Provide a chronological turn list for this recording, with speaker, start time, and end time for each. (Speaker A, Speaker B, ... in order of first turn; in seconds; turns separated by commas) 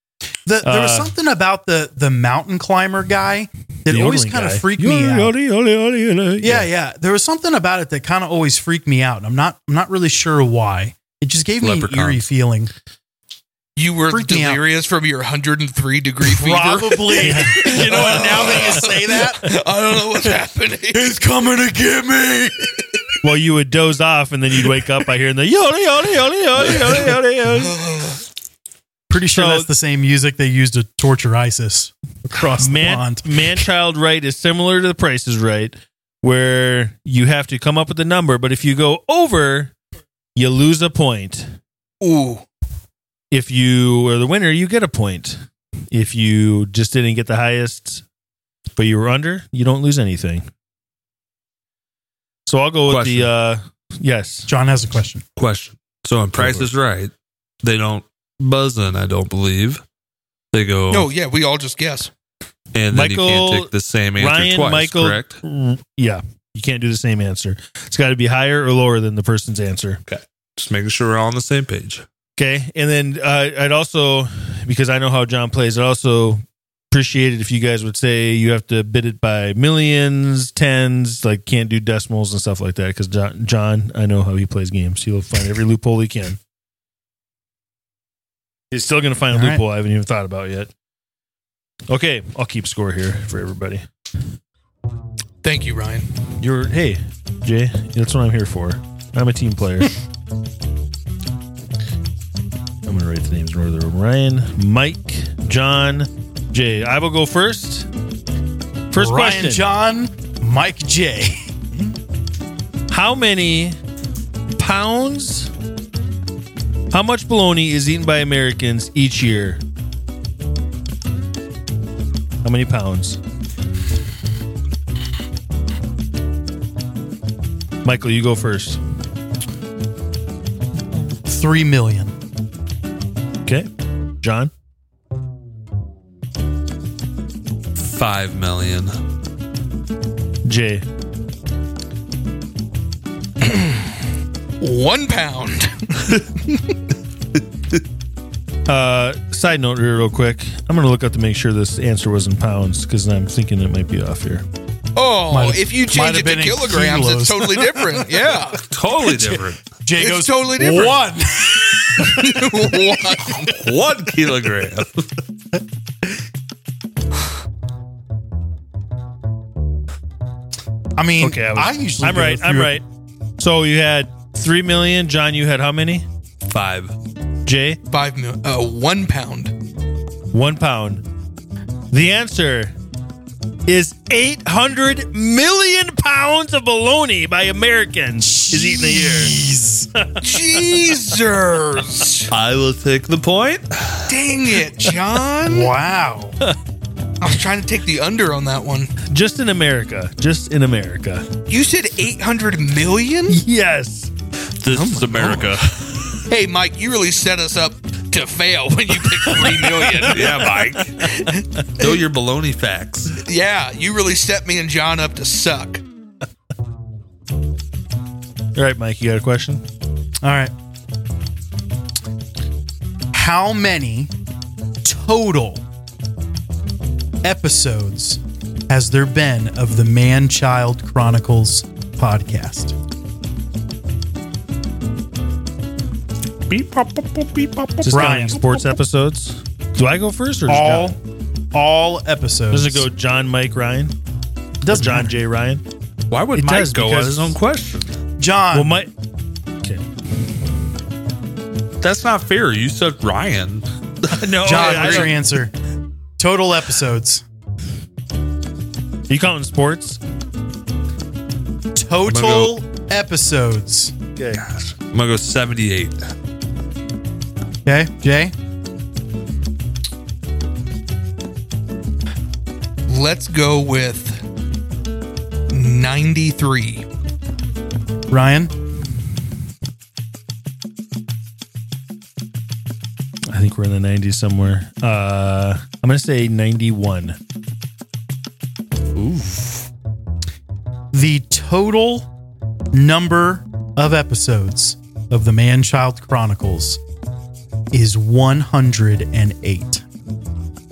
Speaker A: 0.5-5.3, Speaker B: 0.6-1.1, Speaker B: 3.9-6.7, Speaker A: 6.4-12.7, Speaker C: 11.6-12.2, Speaker D: 13.8-21.1, Speaker A: 14.1-14.6, Speaker A: 16.2-19.5, Speaker B: 17.2-18.6, Speaker A: 20.9-23.1, Speaker B: 23.2-27.8, Speaker D: 26.9-28.2, Speaker A: 29.1-33.3, Speaker B: 29.3-29.7, Speaker B: 32.6-39.8, Speaker B: 40.4-41.5, Speaker D: 42.0-42.5, Speaker B: 43.3-48.0, Speaker B: 48.8-50.5, Speaker B: 52.5-54.5, Speaker C: 52.9-53.3, Speaker A: 54.5-55.2, Speaker C: 55.4-59.8, Speaker B: 56.4-56.7, Speaker C: 60.5-61.1, Speaker D: 60.9-62.1, Speaker C: 62.7-65.4, Speaker B: 62.9-70.0, Speaker C: 70.0-72.0, Speaker B: 72.4-86.4, Speaker B: 88.7-90.7, Speaker A: 89.3-89.6, Speaker B: 91.9-93.8, Speaker D: 95.4-96.1, Speaker B: 96.4-99.9, Speaker B: 102.9-107.9, Speaker B: 108.9-109.7, Speaker A: 109.0-111.5, Speaker B: 112.9-113.8, Speaker B: 114.6-115.5, Speaker B: 116.9-119.6, Speaker B: 122.4-123.2, Speaker B: 127.8-128.8, Speaker A: 131.3-132.1, Speaker B: 134.2-134.5, Speaker C: 137.8-139.0, Speaker B: 140.4-140.8, Speaker D: 143.4-143.8, Speaker D: 144.6-146.6, Speaker B: 148.7-154.4, Speaker D: 155.0-158.6, Speaker A: 155.3-158.4, Speaker C: 158.6-159.6, Speaker A: 159.0-162.8, Speaker D: 160.0-161.1, Speaker D: 162.0-163.7, Speaker C: 163.4-165.2, Speaker A: 171.0-172.8, Speaker B: 171.2-172.8, Speaker B: 173.4-176.1, Speaker C: 176.4-176.9, Speaker B: 177.5-177.8, Speaker D: 177.9-179.5, Speaker B: 180.3-181.0, Speaker B: 181.9-182.7, Speaker B: 183.7-189.3, Speaker A: 188.2-189.9, Speaker D: 190.2-192.3, Speaker C: 192.3-194.1, Speaker D: 194.1-195.7, Speaker A: 195.4-196.4, Speaker D: 197.2-198.9, Speaker B: 199.1-201.3, Speaker D: 201.5-203.4, Speaker B: 203.3-204.1, Speaker C: 204.6-205.8, Speaker D: 204.7-205.6, Speaker D: 206.3-211.9, Speaker C: 209.9-211.1, Speaker C: 211.8-213.2, Speaker D: 213.2-215.8, Speaker B: 218.6-219.6, Speaker A: 220.2-220.5, Speaker A: 223.1-224.1, Speaker A: 224.8-225.6, Speaker A: 227.2-232.7, Speaker C: 236.5-238.4, Speaker A: 237.9-238.4, Speaker B: 237.9-241.0, Speaker A: 240.5-241.0, Speaker A: 241.5-242.9, Speaker B: 242.5-243.9, Speaker A: 244.6-245.1, Speaker B: 244.7-245.6, Speaker C: 246.1-247.9, Speaker B: 246.3-247.4, Speaker A: 248.2-248.8, Speaker B: 248.5-248.9, Speaker C: 251.8-255.1, Speaker B: 254.2-255.1, Speaker A: 254.4-255.5, Speaker A: 256.2-257.2, Speaker B: 259.1-260.0, Speaker A: 261.8-263.9, Speaker C: 262.1-262.5, Speaker B: 264.2-264.4, Speaker C: 264.4-266.1, Speaker A: 267.7-268.3, Speaker D: 272.9-274.2, Speaker D: 275.5-276.9, Speaker A: 278.1-278.5, Speaker B: 283.3-287.2, Speaker C: 288.9-289.7, Speaker A: 290.9-292.1, Speaker A: 292.7-296.8, Speaker A: 297.7-299.8